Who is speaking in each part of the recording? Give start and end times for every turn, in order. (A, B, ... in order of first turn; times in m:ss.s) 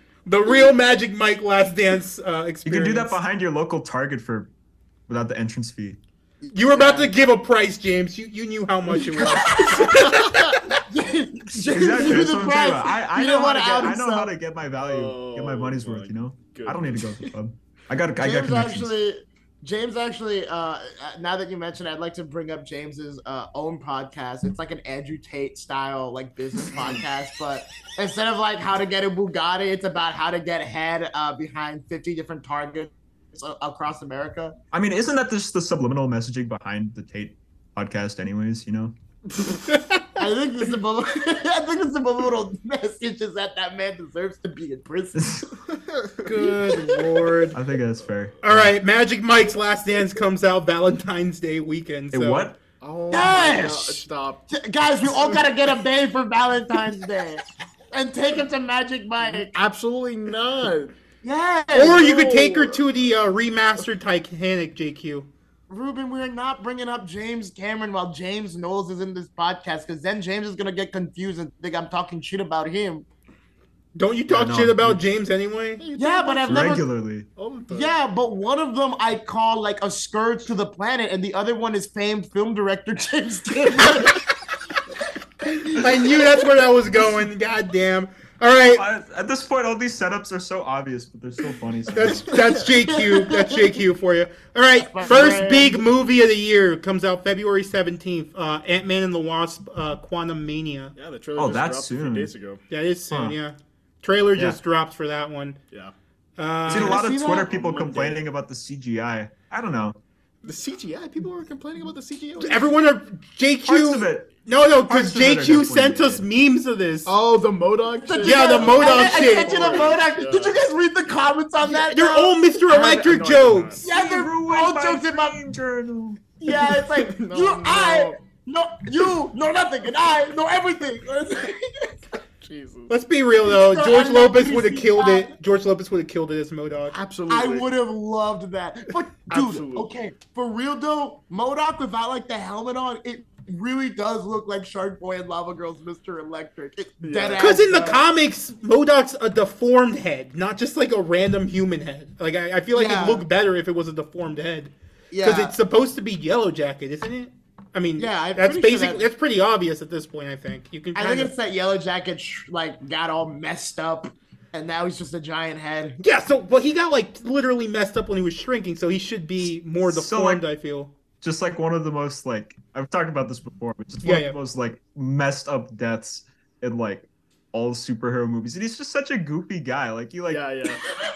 0:00.2-0:03.2 A
0:02.6-0:04.5 B
0:05.1-0:06.0 B
0:06.4-0:07.1 C
0:06.5-0:10.6 A
0:09.2-0:10.2 C
0:09.5-0:10.5 D
0:10.7-0:14.3 C
0:11.7-0:18.9 B
0:14.8-0:17.3 D
0:18.2-0:34.6 C
0:26.7-0:27.0 D
0:34.7-0:38.9 B
0:39.7-0:40.0 A
0:40.2-0:45.6 C
0:45.1-0:45.5 B
0:45.7-0:46.2 D
0:46.2-0:47.6 A
0:47.5-0:48.8 B
0:48.4-0:52.5 A
0:52.1-0:52.6 B
0:52.8-0:54.5 D
0:53.1-0:59.6 C
0:55.0-0:55.4 D
0:59.2-1:00.9 D
1:01.2-1:02.0 C
1:01.7-1:05.3 A
1:01.8-1:02.8 D
1:05.7-1:13.0 C
1:13.9-1:15.8 A
1:14.3-1:15.0 B
1:15.8-1:18.0 D
1:16.0-1:16.8 C
1:16.4-1:17.3 B
1:17.7-1:24.3 C
1:25.5-1:28.8 A
1:28.7-1:32.3 B
1:31.9-1:40.9 A
1:32.8-1:33.7 C
1:34.8-1:35.8 C
1:40.9-1:42.6 D
1:41.4-1:42.3 B
1:42.7-1:45.6 A
1:43.1-1:43.4 B
1:46.4-1:47.0 A
1:46.7-1:50.0 B
1:46.7-1:47.5 C
1:47.3-1:48.2 D
1:50.4-1:52.7 D
1:52.4-1:57.1 A
1:53.6-1:54.3 B
1:54.8-1:56.2 B
1:57.0-2:00.6 D
1:58.0-2:02.4 C
1:58.2-1:59.9 A
2:01.6-2:03.8 A
2:02.7-2:03.9 D
2:03.8-2:05.4 C
2:03.8-2:06.2 B
2:06.4-2:12.0 C
2:06.5-2:08.2 D
2:12.4-2:12.9 D
2:12.9-2:17.0 A
2:13.4-2:15.3 C
2:16.9-2:17.7 D
2:17.3-2:28.0 C
2:19.3-2:19.9 D
2:27.0-2:27.6 D
2:27.4-2:41.3 A
2:32.7-2:33.2 C
2:35.1-2:35.6 C
2:38.0-2:39.0 C
2:40.9-2:46.0 C
2:46.0-2:50.9 A
2:49.8-2:50.4 B
2:51.2-3:00.4 B
2:54.0-2:54.4 A
3:00.3-3:00.8 D